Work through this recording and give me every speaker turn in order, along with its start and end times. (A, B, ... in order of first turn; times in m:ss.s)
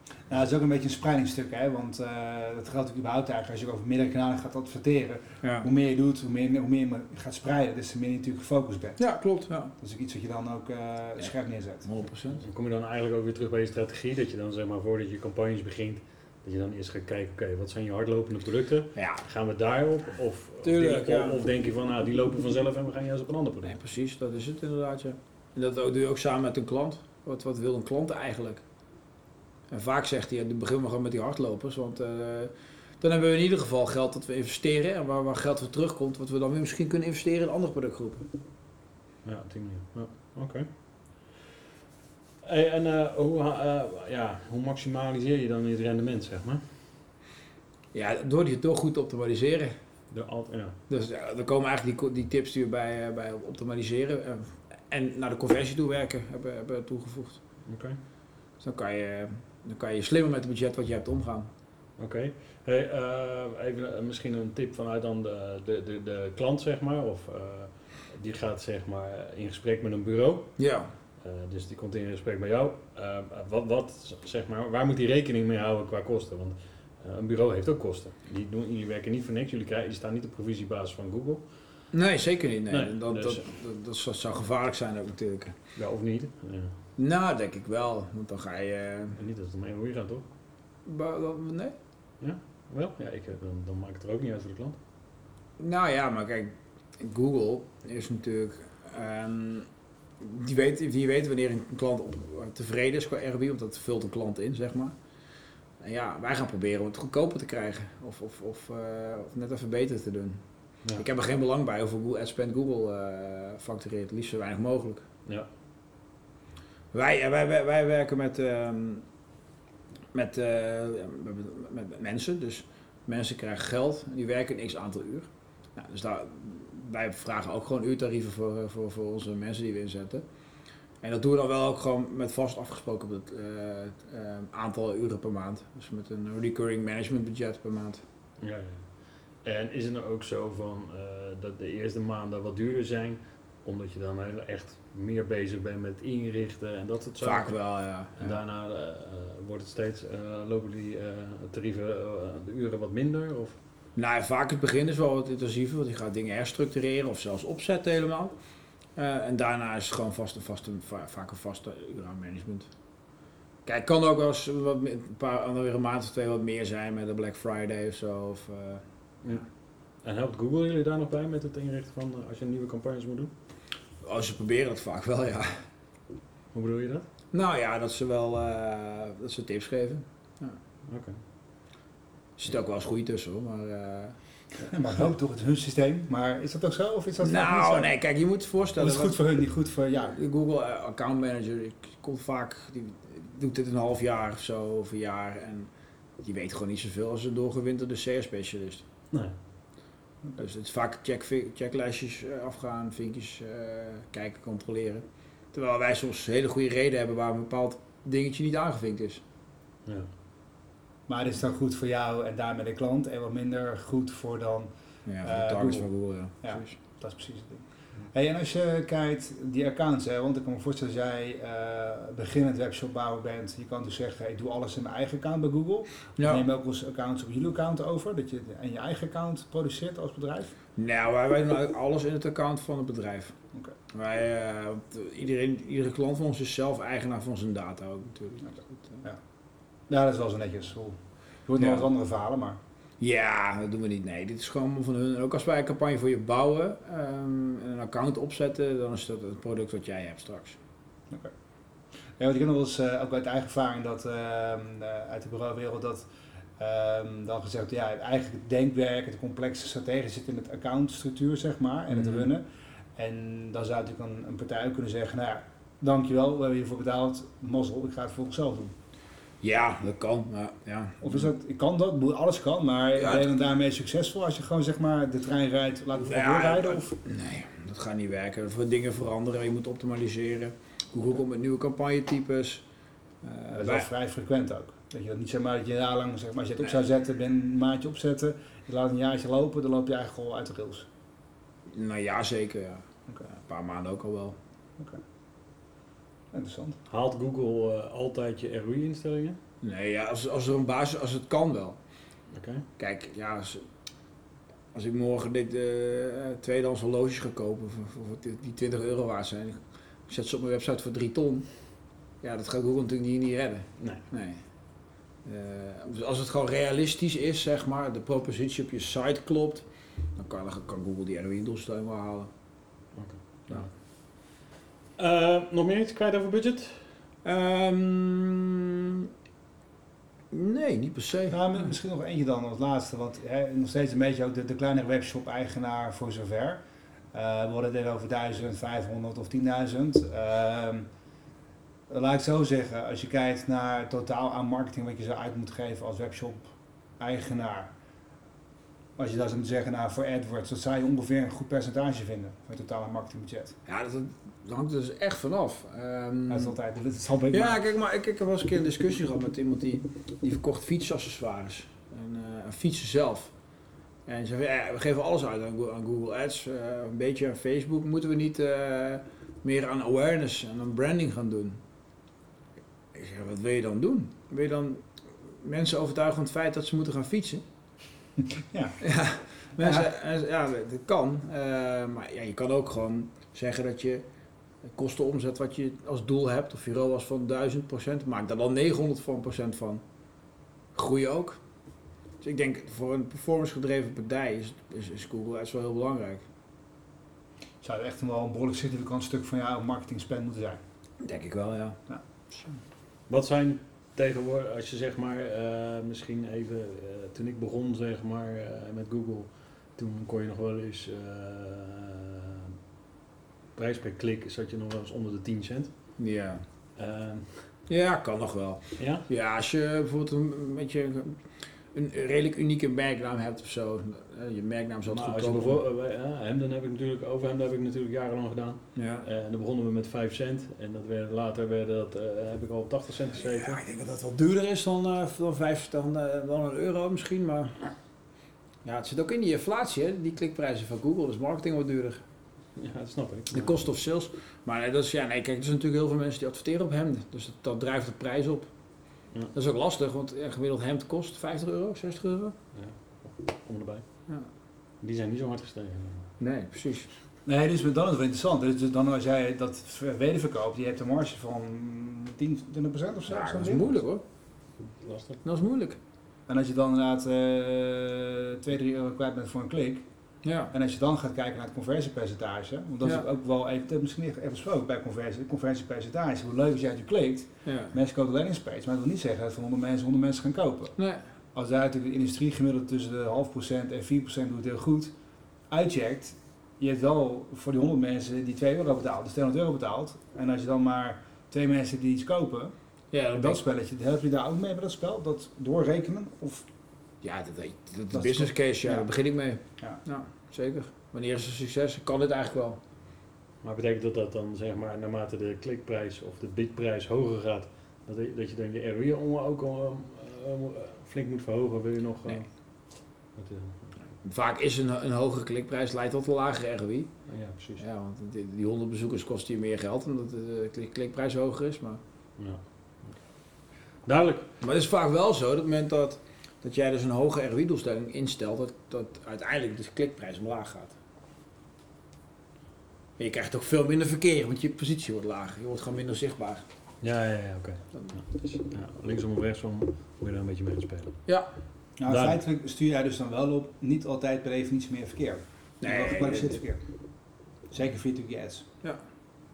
0:00.3-0:09.0 A
0:05.4-0:05.7 B
0:09.0-0:09.7 B
0:09.8-0:11.8 A
0:11.2-0:12.4 B
0:12.4-0:23.8 C
0:18.9-0:19.2 B
0:20.6-0:21.4 B
0:23.6-0:28.6 B
0:29.7-0:38.3 B
0:39.2-0:41.4 C
0:42.4-0:46.6 C
0:47.9-0:49.8 B
0:50.1-0:50.8 C
0:50.9-0:57.4 B
0:57.7-0:58.0 C
0:58.6-1:01.5 B
1:02.0-1:10.5 C
1:10.6-1:10.9 B
1:11.2-1:21.8 C
1:21.9-1:25.6 B
1:22.7-1:23.4 C
1:25.7-1:26.7 C
1:27.0-1:29.2 B
1:29.2-1:30.3 C
1:30.8-1:31.7 B
1:32.2-1:34.8 C
1:35.6-1:39.7 B
1:40.2-1:44.9 B
1:45.8-1:55.0 B
1:56.9-1:59.0 B
2:00.1-2:10.2 B
2:11.0-2:18.0 B
2:18.4-2:33.6 C
2:27.2-2:28.4 B
2:33.9-2:38.3 B
2:39.0-2:42.7 B
2:43.6-2:48.8 B
2:50.0-2:53.3 C
2:54.0-2:55.6 B
2:56.5-2:57.1 C
2:57.3-3:00.6 B
3:00.9-3:01.2 C
3:02.4-3:04.2 B
3:04.6-3:07.9 A
3:07.2-3:09.2 B
3:08.8-3:10.2 A
3:10.0-3:18.8 B
3:20.4-3:29.2 B
3:31.1-3:34.7 A
3:35.0-3:36.8 B
3:35.2-3:35.9 A
3:36.4-3:50.5 A
3:46.2-3:46.4 B
3:50.8-3:53.3 B
3:53.9-3:59.0 B
3:59.9-4:02.6 A
4:01.6-4:01.8 B
4:03.0-4:10.6 B
4:12.2-4:28.7 A
4:21.9-4:22.2 B
4:29.4-4:31.0 B
4:31.0-4:37.0 A
4:33.0-4:33.3 B
4:36.0-4:42.6 B
4:43.2-4:43.9 B
4:43.5-4:50.9 A
4:51.7-4:54.4 B
4:56.3-4:56.8 A
4:56.9-4:59.4 C
4:59.6-5:01.8 B
5:02.3-5:02.6 C
5:02.8-5:03.6 B
5:04.7-5:11.5 B
5:12.2-5:14.4 B
5:15.2-5:22.3 B
5:22.9-5:24.4 C
5:25.0-5:26.8 C
5:27.2-5:28.7 B
5:30.3-5:31.7 B
5:31.3-5:36.6 A
5:37.1-5:40.9 A
5:41.9-5:47.7 A
5:49.0-5:53.5 A
5:53.7-5:56.6 B
5:56.3-5:57.6 A
5:57.3-6:03.3 B
6:04.0-6:11.6 B
6:12.9-6:14.8 B
6:15.4-6:17.4 B
6:18.5-6:18.8 A
6:18.8-6:24.0 B
6:19.6-6:19.9 A
6:24.6-6:29.8 B
6:30.7-6:31.4 B
6:32.2-6:36.2 B
6:37.6-6:40.6 A
6:41.0-6:41.8 B
6:42.3-6:42.6 B
6:43.1-6:52.5 C
6:53.6-6:56.0 C
6:56.0-6:56.4 B
6:56.8-6:57.5 C
6:57.7-7:05.6 B
6:58.8-6:59.0 C
7:04.9-7:13.6 C
7:08.7-7:09.1 B
7:13.2-7:17.7 B
7:18.6-7:22.0 B
7:22.6-7:23.6 C
7:23.3-7:28.5 B
7:29.3-7:32.4 B
7:32.5-7:34.0 C
7:34.8-7:36.1 C
7:36.2-7:36.9 B
7:37.2-7:43.8 A
7:43.1-7:44.0 B
7:44.6-7:45.2 C
7:45.2-7:45.8 B
7:46.3-7:49.8 A
7:50.2-7:50.5 B
7:50.5-8:00.8 A
7:57.4-7:57.8 B
8:00.8-8:01.1 B
8:01.3-8:04.9 A
8:05.5-8:12.5 A
8:12.9-8:13.4 B
8:13.1-8:16.4 A
8:17.0-8:22.6 B
8:17.9-8:18.9 A
8:23.4-8:32.3 C
8:33.1-8:33.8 C
8:34.0-8:36.9 B
8:37.1-8:37.6 C
8:37.6-8:41.8 B
8:42.2-8:43.0 C
8:43.8-8:44.3 C
8:44.4-8:50.8 B
8:53.0-8:56.4 B
8:56.8-9:01.0 C
9:01.0-9:01.3 B
9:01.8-9:06.6 A
9:01.9-9:02.2 C
9:05.6-9:06.4 B
9:07.5-9:08.4 A